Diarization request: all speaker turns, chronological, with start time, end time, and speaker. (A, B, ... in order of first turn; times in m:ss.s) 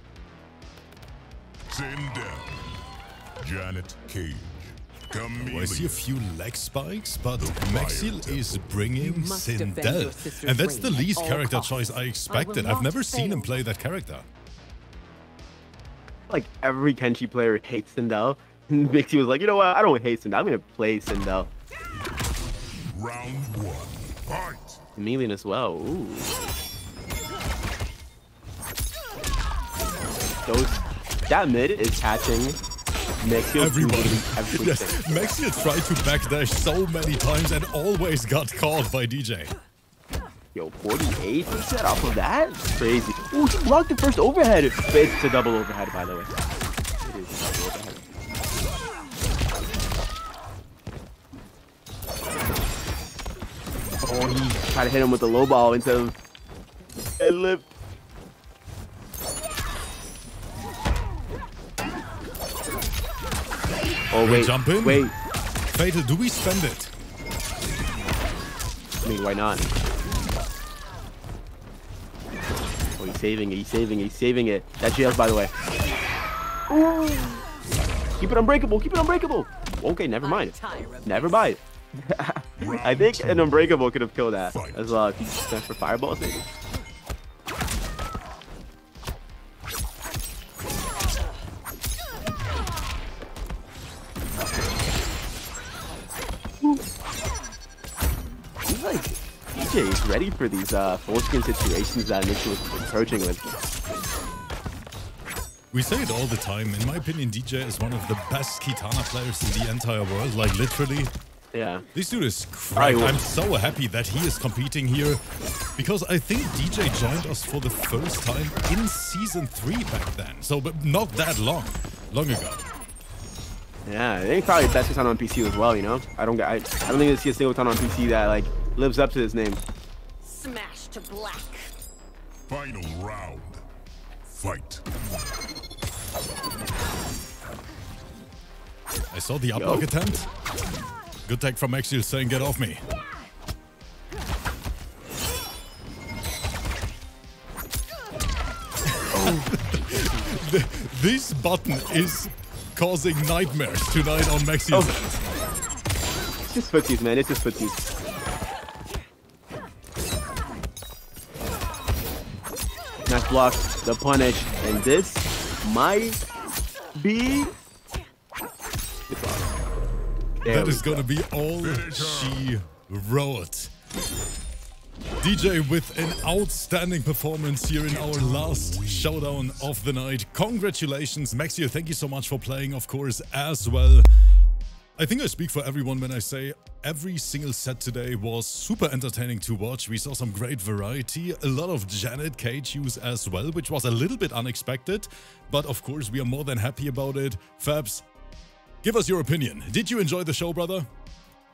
0:01.7-0:02.8 A
0:03.4-0:06.1 A
0:05.4-0:14.2 B
0:07.4-0:08.6 A
0:08.9-0:13.6 C
0:16.3-0:21.5 D
0:22.9-0:24.8 A
0:25.0-0:26.4 D
0:30.4-0:32.6 D
0:33.2-0:35.3 D
0:33.6-0:39.5 B
0:40.5-0:46.3 D
0:47.0-0:48.0 D
0:54.0-0:56.1 D
0:57.2-0:57.7 D
1:04.1-1:05.1 D
1:04.2-1:05.1 B
1:05.7-1:06.9 B
1:09.0-1:09.7 D
1:13.0-1:15.5 D
1:16.7-1:17.4 D
1:18.2-1:26.5 D
1:20.2-1:21.5 C
1:22.6-1:23.8 A
1:24.4-1:25.0 A
1:38.6-1:43.7 D
1:45.7-1:51.1 B
1:51.5-1:51.8 D
1:51.9-1:55.2 B
1:52.8-1:53.2 D
1:55.8-2:02.6 B
2:03.8-2:09.6 D
2:10.2-2:11.7 C
2:12.5-2:13.6 A
2:14.3-2:14.8 A
2:19.1-2:20.3 B
2:19.6-2:19.9 D
2:21.2-2:22.8 B
2:28.9-2:35.2 B
2:29.1-2:30.0 D
2:34.7-2:35.0 D
2:36.4-2:37.8 D
2:43.1-2:46.2 D
2:46.9-2:47.5 D
2:49.1-2:49.4 D
2:50.4-2:51.0 D
2:50.4-2:53.7 B
2:51.6-2:52.5 A
2:55.2-3:04.1 B
2:57.8-2:59.7 A
3:05.0-3:18.0 B
3:18.8-3:20.9 B